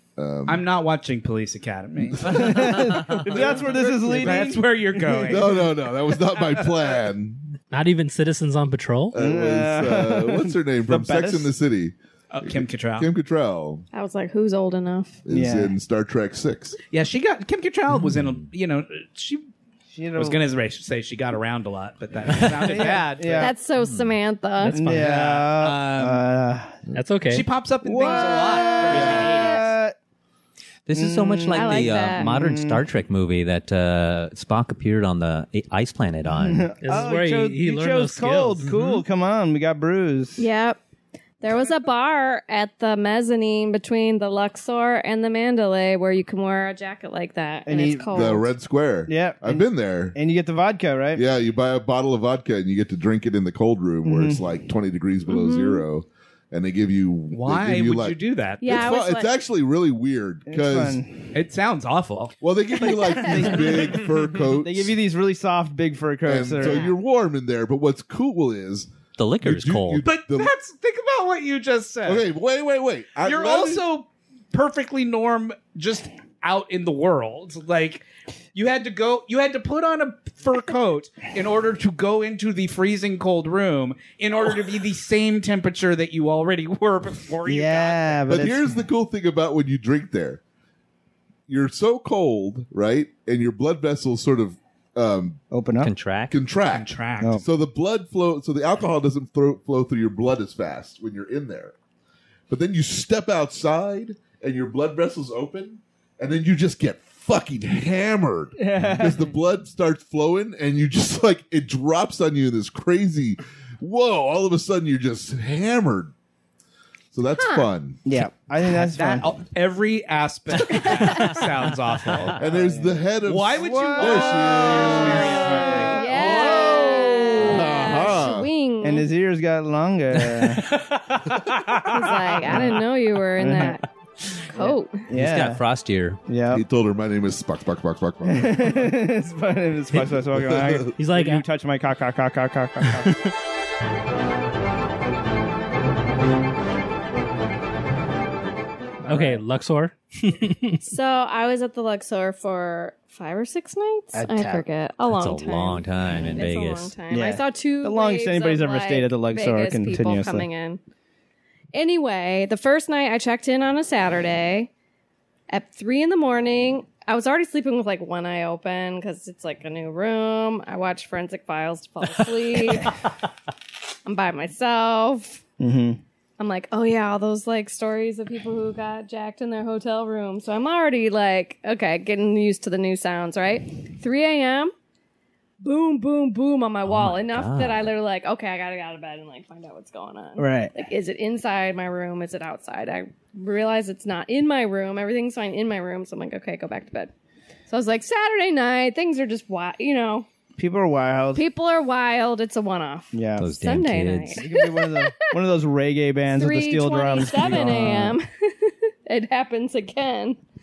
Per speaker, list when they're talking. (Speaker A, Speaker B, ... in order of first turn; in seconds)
Speaker A: 0.2-0.7, 2.2-3.5, 5.2-7.5, 9.1-13.8, 15.2-16.8, 28.9-29.3, 48.1-50.1, 51.1-61.0, 62.4-65.0, 66.2-68.9, 69.4-70.5, 72.0-73.8, 88.3-90.4, 91.5-95.4, 96.3-101.7, 102.5-116.1, 117.1-118.0, 122.3-128.5, 136.5-138.9, 140.1-140.9
Speaker B: 0.5-2.7, 3.3-5.7, 12.3-13.1, 16.9-19.5, 20.1-23.5, 24.9-26.2, 27.3-29.8, 57.3-58.8, 61.3-62.3, 70.0-72.2, 73.2-88.3, 96.6-97.4, 118.7-122.4, 123.2-126.1
Speaker C: 2.2-5.4, 9.2-11.5, 15.3-15.7, 19.9-20.4, 22.6-23.5, 24.6-26.9, 27.8-29.9, 30.9-32.8, 36.4-40.4, 47.6-48.4, 49.1-51.2, 54.0-54.4, 60.5-61.3, 63.0-66.9, 87.5-88.8, 95.5-95.9, 108.6-109.2, 118.0-119.3, 122.4-122.9, 123.5-126.9, 128.8-130.7, 132.5-132.8, 133.4-133.8, 134.5-135.6, 136.3-136.6, 138.2-143.2, 149.1-149.4, 154.1-154.6, 157.1-160.5, 175.6-176.0, 190.4-190.7, 200.6-201.4, 203.1-203.5, 204.3-208.2
Speaker D: 7.7-9.2, 24.7-25.1, 26.9-27.5, 36.8-38.7, 141.0-141.4, 149.0-150.8
Speaker E: 13.9-15.2, 23.4-24.9, 31.5-32.3, 40.4-40.8, 41.4-48.4, 55.3-55.8, 58.6-59.3, 62.8-63.6, 66.6-66.9, 117.3-117.7, 120.7-121.3, 125.9-129.1, 131.8-133.8, 134.5-135.1, 150.8-160.8, 161.7-164.7, 165.5-173.0, 174.1-175.4, 176.4-184.7, 185.6-197.1, 197.7-200.3, 201.3-205.1, 206.3-210.4
Speaker F: 18.1-18.4, 22.3-22.9, 23.8-24.1, 30.9-36.7, 38.6-39.0, 69.2-70.0, 95.8-96.4, 122.1-122.3, 130.1-132.8, 135.1-136.2, 155.1-156.9, 186.8-187.8, 203.4-204.4, 207.3-207.9